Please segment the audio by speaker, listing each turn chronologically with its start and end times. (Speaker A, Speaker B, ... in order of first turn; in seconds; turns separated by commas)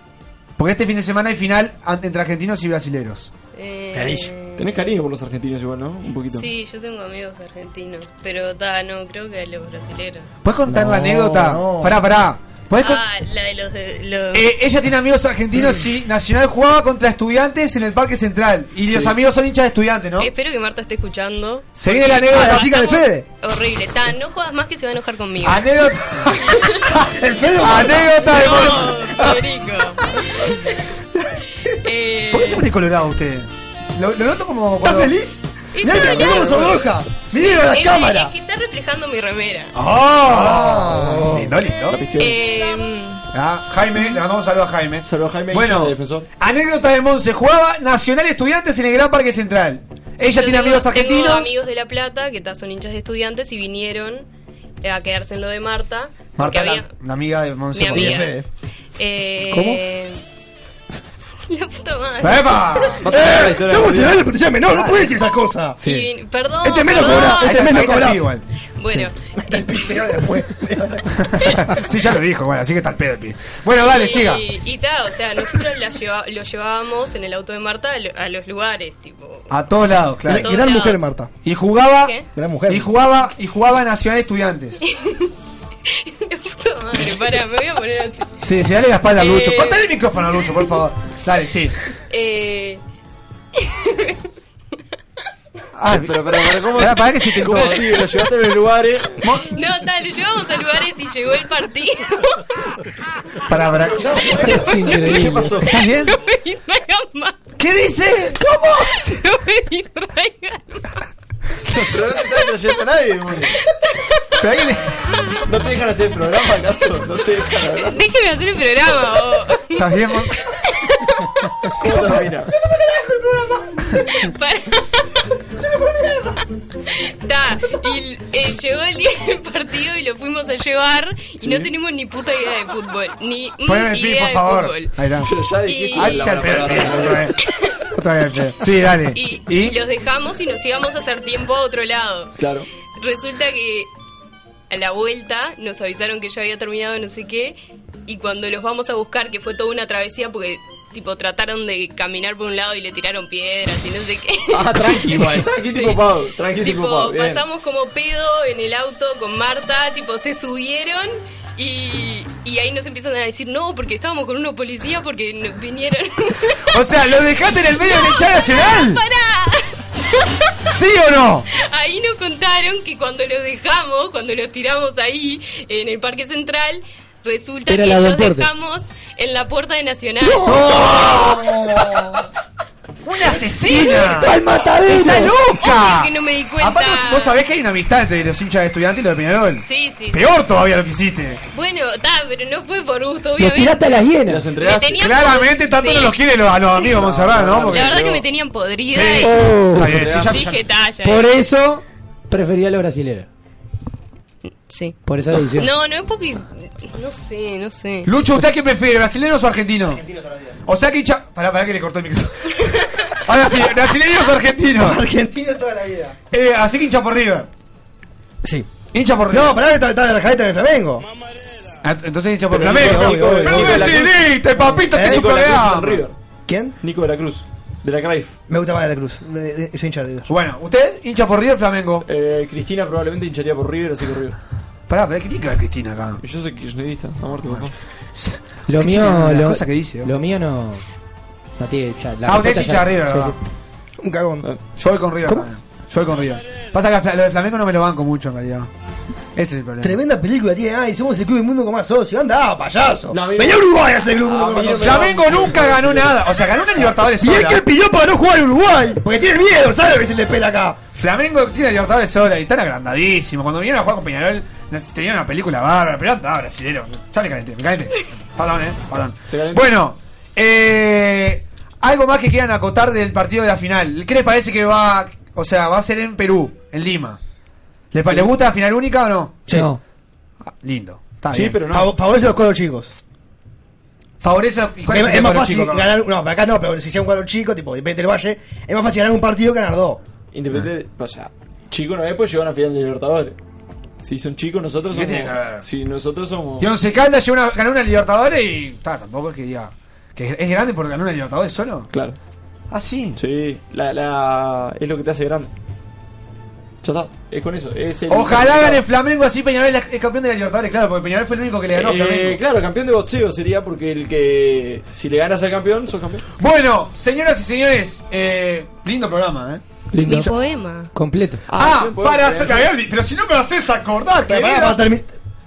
Speaker A: 0.6-3.3, Speaker B: 3.5-4.7, Speaker C: 3.9-4.3, Speaker D: 4.6-6.5, Speaker B: 6.3-10.3, Speaker A: 10.4-13.0, Speaker C: 10.7-12.0, Speaker B: 12.8-14.5, Speaker A: 14.3-20.3, Speaker C: 18.9-19.1, Speaker B: 20.2-25.7, Speaker A: 21.8-22.7, Speaker C: 22.3-23.3, Speaker A: 25.4-29.2, Speaker C: 27.1-29.4, Speaker B: 28.2-30.6, Speaker B: 31.7-32.7, Speaker A: 32.3-35.1, Speaker C: 34.8-38.3, Speaker B: 35.7-36.7, Speaker B: 37.3-39.7, Speaker A: 39.7-42.0, Speaker C: 40.0-41.4, Speaker E: 41.0-41.5, Speaker D: 41.9-42.4, Speaker B: 42.2-43.2, Speaker A: 43.3-51.5, Speaker D: 45.0-46.3, Speaker B: 50.3-54.3, Speaker B: 54.8-56.9, Speaker A: 56.4-58.3, Speaker B: 57.7-58.4, Speaker C: 57.9-58.5, Speaker B: 59.0-60.2, Speaker E: 59.5-59.8, Speaker B: 61.5-62.7, Speaker A: 62.2-63.0, Speaker D: 63.0-64.2, Speaker C: 63.0-65.8, Speaker A: 64.8-65.1, Speaker B: 65.8-67.8, Speaker A: 65.8-66.1, Speaker C: 66.6-68.3, Speaker A: 67.4-68.4, Speaker B: 68.8-70.2, Speaker C: 69.4-71.7, Speaker A: 71.1-74.4, Speaker B: 73.8-79.5, Speaker A: 79.5-80.6, Speaker C: 80.2-81.3, Speaker B: 80.4-81.1, Speaker A: 81.4-82.1, Speaker C: 82.3-82.9, Speaker A: 82.7-84.8, Speaker B: 84.8-85.3, Speaker B: 85.8-88.4, Speaker A: 88.4-91.8, Speaker B: 89.1-89.9, Speaker B: 92.1-92.8, Speaker B: 93.5-94.2, Speaker A: 95.8-97.9, Speaker D: 95.9-99.1, Speaker A: 99.2-99.5, Speaker B: 99.5-102.4, Speaker A: 103.5-104.2, Speaker C: 103.9-104.6, Speaker B: 104.4-105.2, Speaker E: 104.4-105.6, Speaker D: 105.0-105.7, Speaker A: 105.7-106.2, Speaker B: 105.7-107.4, Speaker A: 107.6-109.2, Speaker B: 108.6-111.0, Speaker D: 111.7-113.6, Speaker B: 113.6-114.4, Speaker A: 114.4-114.9, Speaker D: 115.5-118.0, Speaker B: 117.8-121.7, Speaker A: 119.8-120.3, Speaker D: 121.8-122.5, Speaker C: 121.9-124.0, Speaker B: 124.1-125.2, Speaker C: 125.5-126.4, Speaker B: 127.2-135.0, Speaker D: 131.4-131.7, Speaker A: 133.7-135.3, Speaker D: 135.2-137.4, Speaker B: 135.6-137.8, Speaker A: 135.9-137.4, Speaker A: 137.9-139.8, Speaker B: 139.1-142.3, Speaker D: 142.4-142.7, Speaker B: 143.0-143.9, Speaker B: 144.7-156.0, Speaker D: 154.5-157.4, Speaker B: 156.6-166.9, Speaker A: 166.7-169.0, Speaker B: 167.7-170.5, Speaker A: 170.7-171.4, Speaker B: 171.6-180.6, Speaker E: 177.7-178.5, Speaker C: 180.2-182.2, Speaker A: 180.4-181.4, Speaker A: 183.0-191.4, Speaker E: 183.6-185.3, Speaker B: 185.5-187.4, Speaker B: 189.6-190.2, Speaker B: 191.5-193.8, Speaker E: 193.4-194.5, Speaker D: 194.3-195.1, Speaker B: 194.6-196.2, Speaker A: 194.9-198.0, Speaker D: 196.8-198.2, Speaker B: 197.7-199.3, Speaker A: 198.9-200.6, Speaker E: 199.2-200.0, Speaker D: 199.8-200.5, Speaker B: 200.2-201.3, Speaker E: 201.0-203.3, Speaker B: 204.7-208.1, Speaker E: 205.1-205.7, Speaker A: 208.1-210.0, Speaker C: 209.9-210.6, Speaker A: 210.7-215.0, Speaker C: 214.8-216.2, Speaker A: 216.3-217.5, Speaker C: 218.4-218.7, Speaker A: 218.9-219.6, Speaker C: 219.3-221.0, Speaker A: 221.8-226.0, Speaker D: 222.5-226.2, Speaker C: 222.5-224.1, Speaker C: 224.7-225.2, Speaker C: 226.5-226.7, Speaker D: 226.8-228.3, Speaker C: 228.5-230.3, Speaker A: 230.3-232.1, Speaker D: 232.0-234.4, Speaker A: 234.9-236.2, Speaker D: 236.2-237.7, Speaker A: 237.4-240.1, Speaker E: 238.7-240.8, Speaker E: 241.6-243.4, Speaker A: 242.2-243.4, Speaker C: 244.0-244.5, Speaker A: 244.8-248.7, Speaker A: 249.3-249.9, Speaker C: 249.8-255.1, Speaker D: 253.1-256.3, Speaker A: 254.7-257.6, Speaker C: 257.1-260.8, Speaker A: 260.9-277.2, Speaker D: 269.3-269.7, Speaker A: 277.9-279.6, Speaker D: 278.1-278.3, Speaker E: 279.5-279.8, Speaker A: 280.5-281.6, Speaker D: 281.3-281.9, Speaker C: 281.6-282.9, Speaker A: 284.2-285.9, Speaker C: 284.9-290.0, Speaker D: 290.3-293.4, Speaker D: 294.0-296.7, Speaker A: 294.9-295.6, Speaker A: 296.6-301.9, Speaker D: 301.9-302.2, Speaker A: 302.7-303.2, Speaker D: 303.1-305.5, Speaker D: 306.8-308.8, Speaker A: 308.1-312.4, Speaker D: 311.7-316.2, Speaker A: 316.4-320.3, Speaker E: 319.9-320.3, Speaker B: 320.0-320.9, Speaker E: 320.9-321.4, Speaker D: 321.5-322.7, Speaker A: 321.5-324.8, Speaker C: 324.2-325.1